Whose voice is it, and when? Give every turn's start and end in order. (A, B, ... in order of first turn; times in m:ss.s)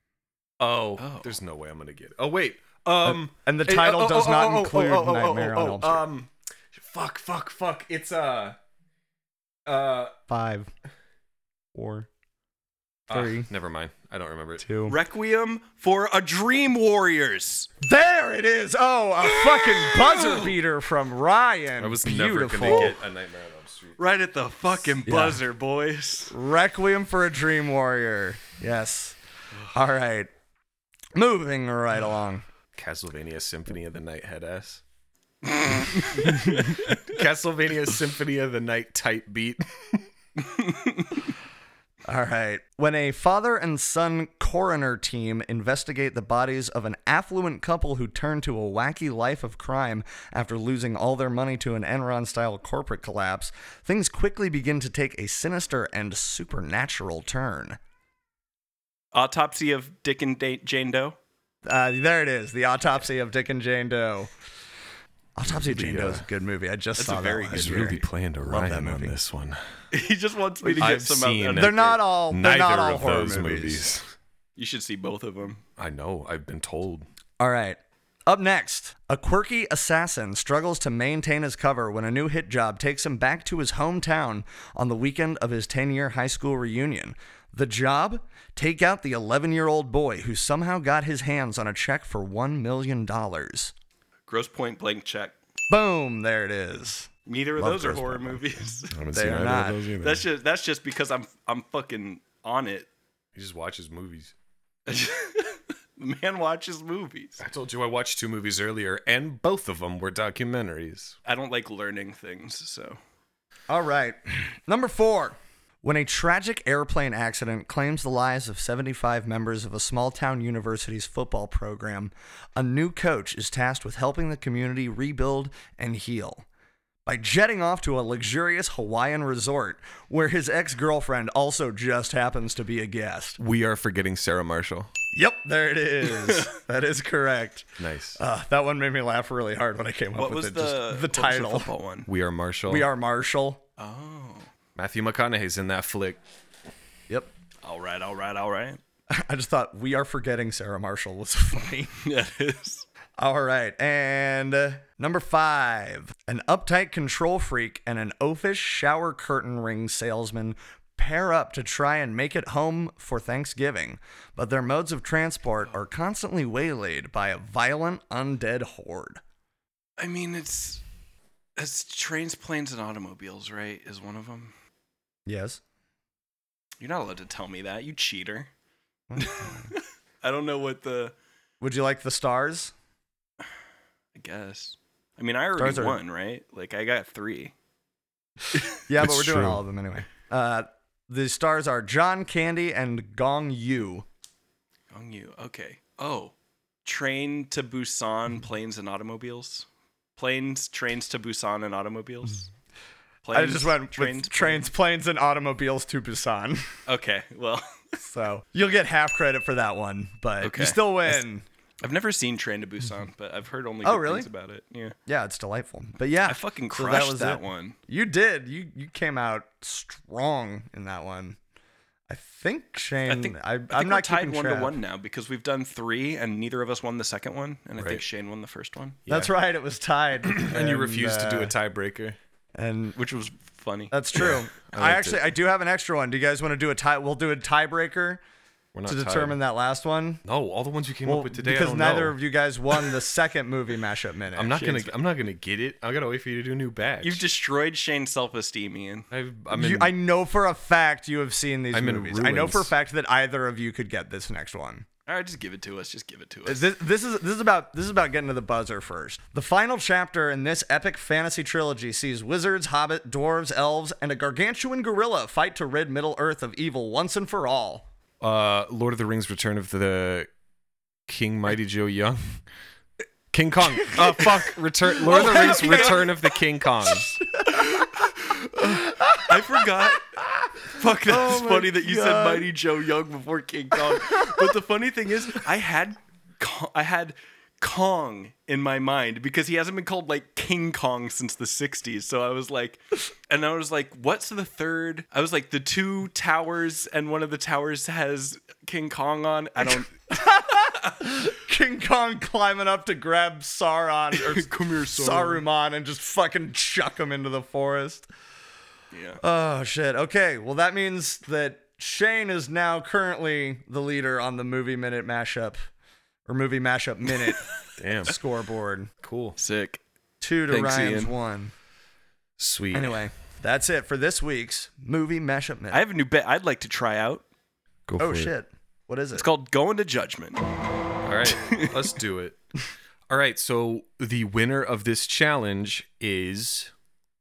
0:00.6-0:08.6 A
0:01.0-0:01.4 B
0:03.0-0:06.0 C
0:09.7-0:10.1 A
0:10.3-0:10.7 C
0:11.7-0:12.1 C
0:13.1-0:14.7 A
0:13.1-0:13.5 C
0:14.6-0:15.0 C
0:14.9-0:17.7 B
0:17.8-0:23.0 C
0:19.4-0:20.5 B
0:21.8-0:24.0 A
0:24.0-0:26.3 B
0:25.0-0:25.4 C
0:26.3-0:29.2 C
0:29.7-0:30.3 C
0:31.2-0:32.5 C
0:32.8-0:34.8 A
0:35.6-0:37.0 B
0:36.2-0:40.1 A
0:40.5-0:41.1 B
0:42.1-0:57.8 C
0:59.1-1:01.2 B
1:01.6-1:04.3 C
1:05.4-1:09.2 C
1:05.4-1:06.2 A
1:07.0-1:08.0 B
1:07.5-1:09.6 A
1:09.9-1:12.0 B
1:10.6-1:11.0 C
1:10.8-1:14.2 A
1:11.5-1:13.9 C
1:14.6-1:15.6 B
1:15.8-1:17.1 A
1:17.4-1:33.7 C
1:34.3-1:35.4 B
1:35.7-1:38.6 C
1:37.3-1:38.9 B
1:38.9-1:40.2 A
1:39.1-1:39.9 C
1:40.0-1:42.9 B
1:43.4-1:44.3 A
1:44.9-1:47.4 B
1:47.4-1:51.2 A
1:51.3-1:53.0 B
1:53.7-2:06.5 C
2:07.0-2:13.4 C
2:13.4-2:14.9 A
2:15.1-2:21.7 C
2:17.8-2:18.2 A
2:20.2-2:22.1 B
2:22.1-2:22.9 A
2:22.7-2:23.6 C
2:23.8-2:24.5 B
2:24.8-2:26.2 A
2:27.6-2:28.8 B
2:29.1-2:31.9 C
2:32.0-2:32.9 B
2:33.2-2:49.2 C
2:50.0-2:50.8 B
2:51.6-2:54.5 B
2:55.3-2:55.6 C
2:56.8-2:58.5 B
2:59.1-2:59.7 C
2:59.2-3:01.1 B
3:01.6-3:02.7 C
3:04.2-3:07.5 B
3:05.6-3:06.0 C
3:08.9-3:14.1 C
3:09.0-3:09.6 A
3:14.9-3:16.3 B
3:16.8-3:22.5 B
3:23.2-3:24.6 B
3:23.3-3:26.7 C
3:26.9-3:28.0 B
3:28.0-3:31.5 C
3:30.4-3:31.2 B
3:31.8-3:35.0 B
3:33.8-3:34.3 C
3:35.1-3:41.4 C
3:36.3-3:37.8 B
3:42.1-3:44.8 C
3:43.1-3:49.0 B
3:47.8-3:48.0 A
3:49.1-3:49.3 A
3:49.1-3:51.6 C
3:50.4-3:52.2 A
3:52.6-3:53.0 C
3:53.0-3:54.1 B
3:53.9-3:58.2 C
3:54.2-3:55.3 A
3:58.8-3:59.4 A
3:58.9-4:00.2 C
4:00.2-4:02.2 A
4:01.0-4:04.6 C
4:04.4-4:07.2 A
4:04.6-4:04.9 B
4:07.0-4:09.1 B
4:09.1-4:09.9 A
4:09.5-4:14.9 C
4:11.7-4:12.7 A
4:15.1-4:16.7 B
4:16.5-4:27.9 C
4:28.2-4:30.3 A
4:31.1-4:32.5 A
4:33.3-4:37.2 A
4:35.1-4:36.1 C
4:35.1-4:36.1 B
4:36.9-4:40.5 C
4:37.6-4:37.8 B
4:38.6-4:40.1 B
4:40.7-5:00.1 B
4:41.0-4:42.5 C
4:43.8-4:44.4 C
5:00.1-5:08.1 C
5:04.2-5:05.4 B
5:08.9-5:09.2 B
5:09.2-5:15.6 C
5:16.3-5:17.5 C
5:17.8-5:18.1 A
5:18.0-5:18.9 C
5:19.0-5:19.4 A
5:19.4-5:19.8 B
5:20.2-5:21.5 C
5:20.5-5:21.1 A
5:22.4-5:23.0 A
5:22.7-5:25.8 C
5:25.7-5:27.2 B
5:27.9-5:28.3 A
5:28.0-5:29.3 C
5:29.2-5:30.4 B
5:31.0-5:32.4 A
5:31.3-5:31.7 B
5:33.1-5:36.7 A